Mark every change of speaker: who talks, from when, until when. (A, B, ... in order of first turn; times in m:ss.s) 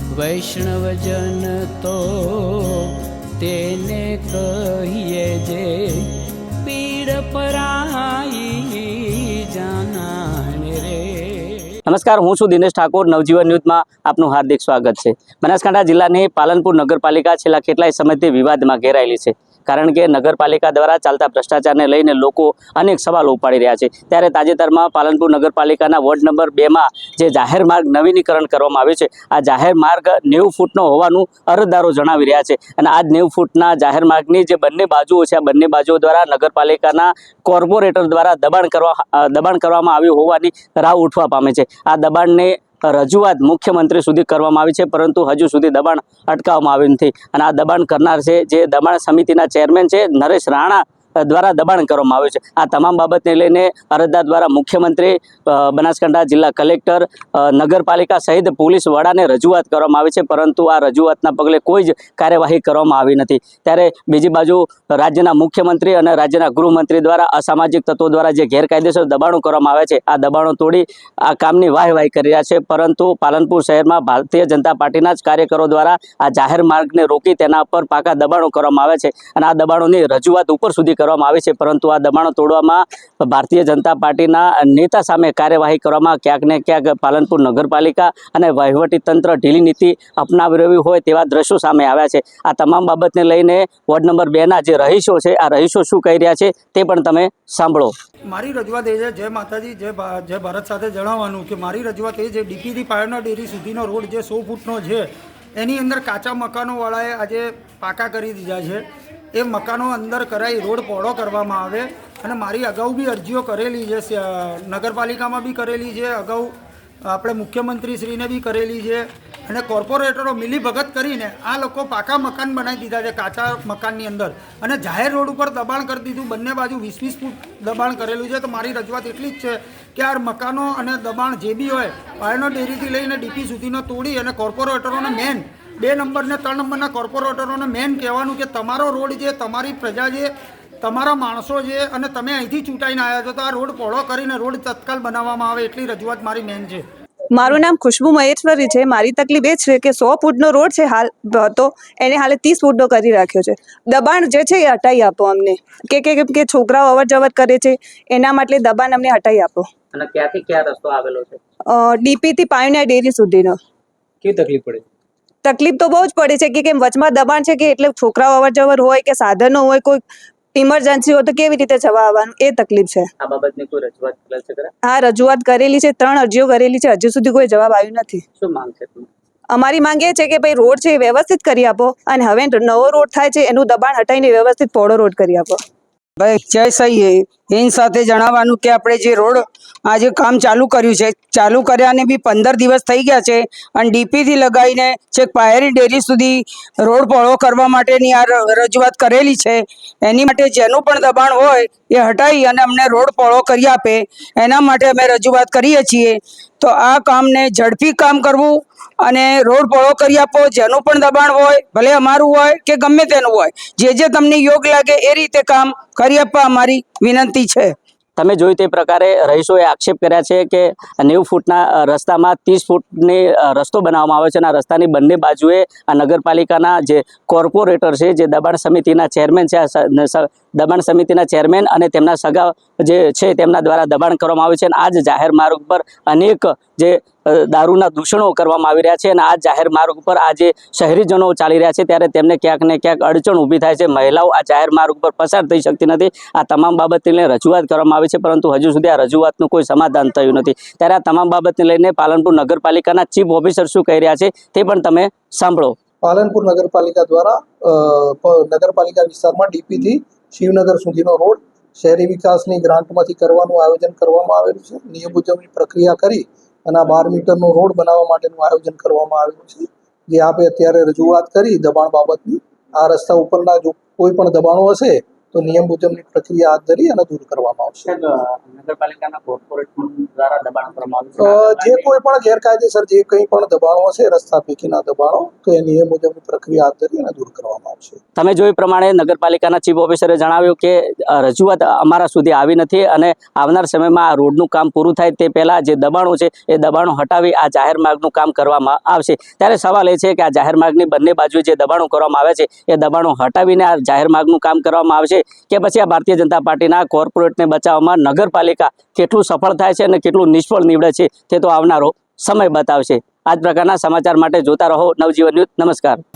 0:00.1-0:11.7 A
0:11.9-1:37.9 B
1:38.3-1:56.5 C
1:57.0-2:20.3 C
2:20.8-2:26.8 C
2:27.3-2:39.7 D
2:39.9-2:41.4 B
2:41.7-2:43.6 D
2:44.2-2:44.8 B
2:45.4-2:50.0 D
2:50.5-2:53.1 D
2:53.2-2:54.7 B
2:54.9-2:58.2 D
2:58.4-2:59.1 B
2:59.5-3:05.6 D
3:06.2-3:37.8 E
3:38.2-4:15.8 B
4:16.0-4:37.9 F
4:37.9-4:41.8 B
4:41.2-4:48.0 F
4:48.2-5:16.0 B